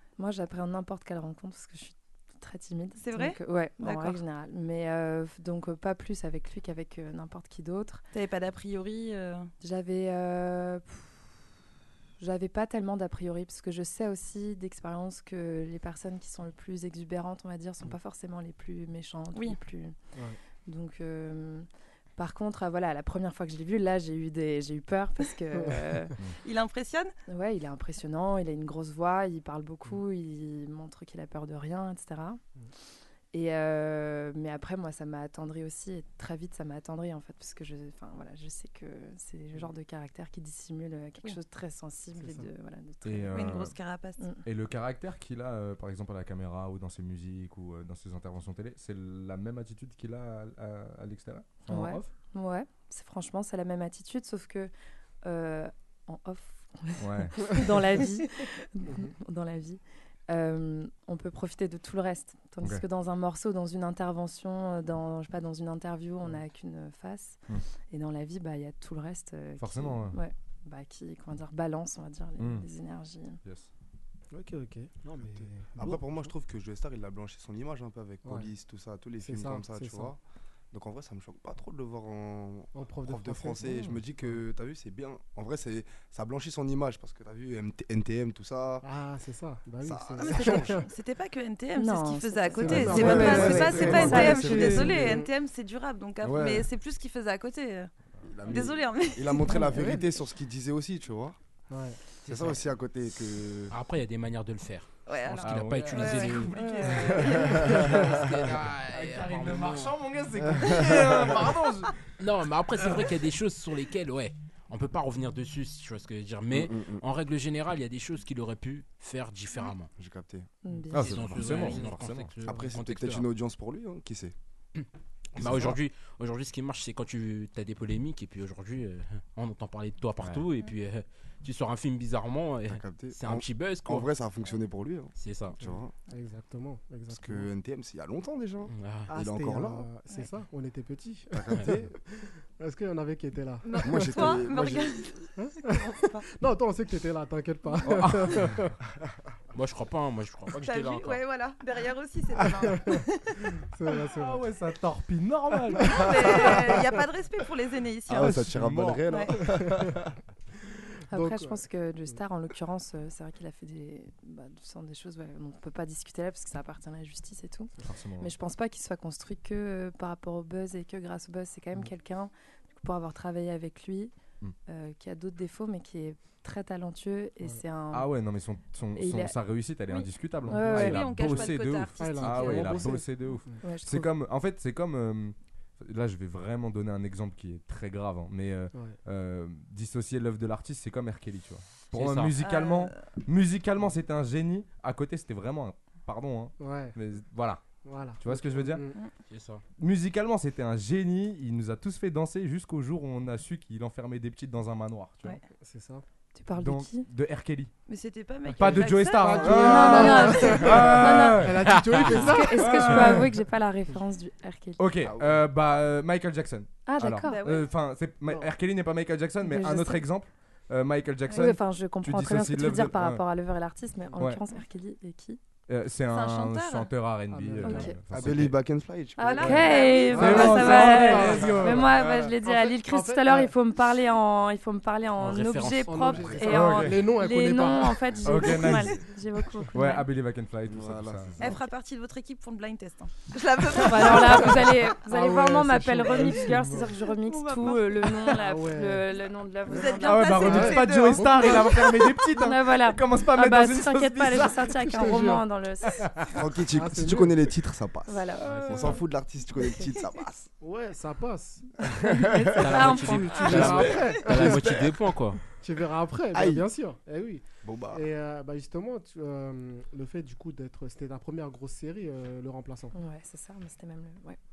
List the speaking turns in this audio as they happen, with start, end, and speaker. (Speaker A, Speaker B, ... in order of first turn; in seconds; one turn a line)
Speaker A: 0.2-8.0
Speaker B: 3.0-4.2
Speaker B: 8.1-9.5
Speaker A: 9.6-11.2
Speaker A: 12.2-20.0
Speaker A: 20.7-21.7
Speaker A: 22.2-26.1
Speaker C: 25.6-25.9
Speaker B: 26.4-27.1
Speaker A: 27.3-32.4
Speaker A: 33.3-43.4
Speaker C: 42.2-42.5
Speaker D: 43.0-43.8
Speaker B: 43.3-44.2
Speaker D: 44.5-52.1
Speaker A: 51.7-54.7
Speaker A: 55.2-73.4
Speaker D: 57.0-57.6
Speaker C: 58.9-59.1
Speaker D: 69.6-70.2
Speaker D: 72.4-72.7
Speaker D: 73.4-73.7
Speaker C: 74.3-76.3
Speaker E: 75.8-80.2
Speaker C: 79.2-80.1
Speaker E: 80.7-88.8
Speaker C: 82.8-84.4
Speaker C: 88.8-90.8
Speaker E: 89.8-90.8
Speaker B: 90.2-97.9
Speaker A: 91.8-94.9
Speaker C: 92.5-95.3
Speaker E: 92.9-95.1
Speaker E: 96.2-96.7
Speaker E: 98.2-101.4
Speaker B: 98.5-99.6
Speaker C: 99.6-100.1
Speaker C: 101.7-102.0
Speaker F: 102.2-102.6
Speaker E: 102.3-103.8
Speaker F: 103.7-110.0
Speaker B: 105.1-107.7
Speaker D: 105.4-108.3
Speaker D: 108.9-112.0
Speaker F: 110.6-111.4
Speaker F: 112.2-119.9
Speaker E: 116.5-117.0
Speaker E: 120.0-120.5
Speaker A: 120.6-121.2
Speaker D: 120.9-122.3
Speaker F: 120.9-123.3
Speaker E: 121.0-124.3
Speaker F: 125.4-134.1
Speaker E: 125.4-125.8
Speaker E: 132.7-135.9
Speaker F: 135.2-135.6
Speaker C: 135.6-137.5
Speaker E: 137.1-139.9
Speaker F: 138.7-139.1
Speaker C: 139.1-144.4
Speaker E: 141.3-141.9
Speaker B: 143.6-146.3
Speaker E: 143.8-145.1
Speaker C: 145.4-148.8
Speaker D: 147.8-148.5
Speaker F: 149.6-151.2
Speaker B: 150.5-153.4
Speaker C: 152.4-154.4
Speaker D: 154.1-156.5
Speaker C: 155.8-156.1
Speaker B: 155.9-158.4
Speaker E: 158.1-160.0
Speaker D: 158.2-159.1
Speaker B: 159.1-159.3
Speaker C: 159.3-160.0
Speaker C: 160.7-161.6
Speaker A: 161.1-174.1
Speaker D: 167.8-168.3
Speaker A: 174.7-178.1
Speaker D: 177.9-197.6
Speaker A: 179.0-179.4
Speaker A: 180.5-181.0
Speaker B: 180.7-182.9
Speaker C: 182.0-183.6
Speaker A: 183.6-184.1
Speaker F: 191.9-192.4
Speaker B: 192.4-193.1
Speaker C: 196.6-197.0
Speaker C: 197.8-199.0
Speaker D: 198.2-198.8
Speaker F: 199.3-199.6
Speaker D: 199.8-205.4
Speaker C: 205.6-206.0
Speaker A: 206.3-207.1
Speaker D: 206.6-207.7
Speaker B: 207.9-210.6
Speaker C: 208.5-213.3
Speaker D: 208.6-211.6
Speaker A: 209.6-211.5
Speaker F: 211.7-212.2
Speaker A: 212.2-214.8
Speaker D: 212.6-213.3
Speaker D: 214.8-223.2
Speaker E: 215.0-215.4
Speaker A: 216.9-217.4
Speaker B: 217.2-217.7
Speaker A: 219.4-220.1
Speaker A: 221.3-225.4
Speaker D: 225.7-228.6
Speaker B: 226.1-226.9
Speaker C: 227.3-228.0
Speaker A: 227.6-228.0
Speaker E: 228.1-229.8
Speaker A: 229.2-240.1
Speaker B: 229.2-231.2
Speaker C: 229.4-233.5
Speaker D: 230.1-232.1
Speaker F: 235.2-236.4
Speaker C: 235.8-238.5
Speaker D: 236.4-237.1
Speaker D: 238.2-239.0
Speaker D: 239.7-241.5
Speaker E: 240.7-241.4
Speaker B: 241.4-244.8
Speaker A: 243.8-250.7
Speaker C: 244.1-246.9
Speaker B: 247.2-248.4
Speaker C: 248.3-249.1
Speaker B: 249.7-252.1
Speaker D: 250.0-255.1
Speaker C: 250.4-251.6
Speaker A: 251.3-256.1
Speaker C: 254.9-257.5
Speaker E: 256.3-260.5
Speaker A: 258.1-259.0
Speaker F: 258.4-258.8
Speaker C: 260.6-261.7
Speaker E: 262.1-262.8
Speaker F: 262.4-265.4
Speaker A: 262.5-264.0
Speaker C: 263.4-264.7
Speaker E: 263.6-265.0
Speaker C: 265.6-272.9
Speaker E: 266.3-266.6
Speaker E: 267.6-268.0
Speaker A: 272.9-274.4